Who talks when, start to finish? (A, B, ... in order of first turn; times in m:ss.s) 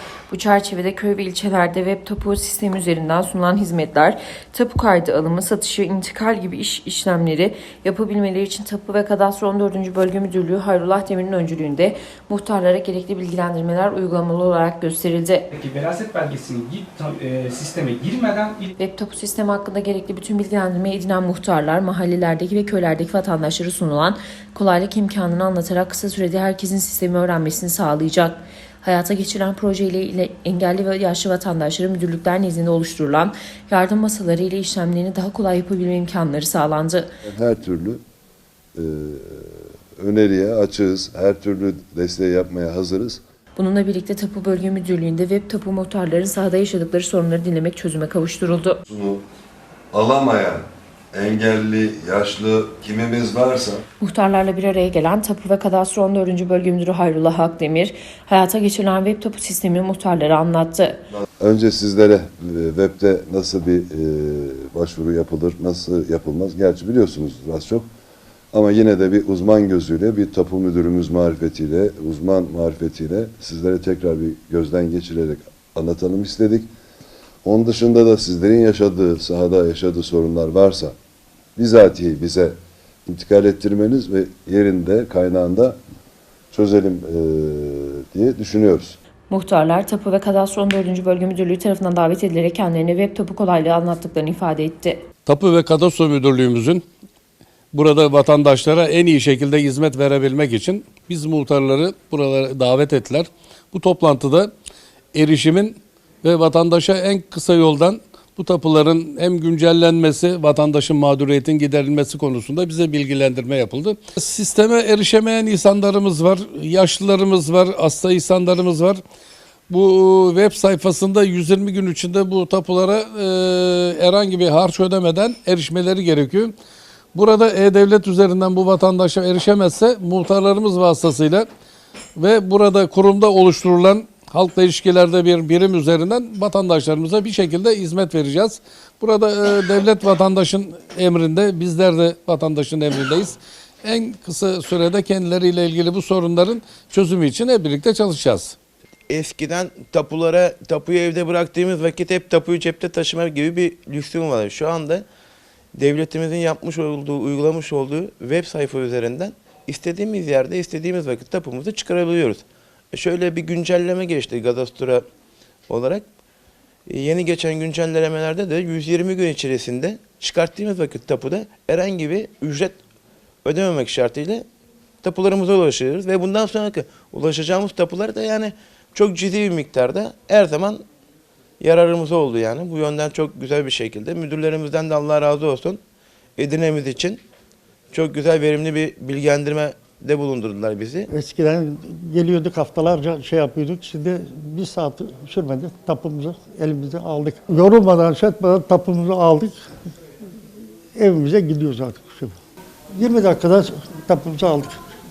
0:00.3-0:15.5 A
0:15.5-0:18.7 B
0:18.8-0:37.1 A
0:37.2-0:38.0 C
0:38.7-0:43.2 C
0:43.6-0:48.8 A
0:48.9-0:49.2 C
0:49.9-0:53.8 C
0:54.0-1:01.0 A
1:01.4-1:07.9 C
1:08.5-1:16.7 C
1:17.4-1:20.9 C
1:21.6-1:25.8 C
1:26.5-1:29.0 C
1:29.3-1:35.0 A
1:35.2-1:36.8 D
1:37.7-1:44.5 D
1:45.1-1:59.0 D
1:59.7-2:06.5 D
2:07.1-2:11.5 D
2:12.2-2:28.6 D
2:29.1-2:35.0 E
2:35.8-2:45.0 E
2:45.7-2:46.0 E
2:46.9-2:52.8 E
2:53.4-2:54.5 E
2:55.0-3:00.8 E
3:01.6-3:05.8 E
3:06.4-3:07.2 E
3:07.9-3:11.1 E
3:11.1-3:19.6 F
3:21.0-3:22.3 F
3:22.9-3:24.8 F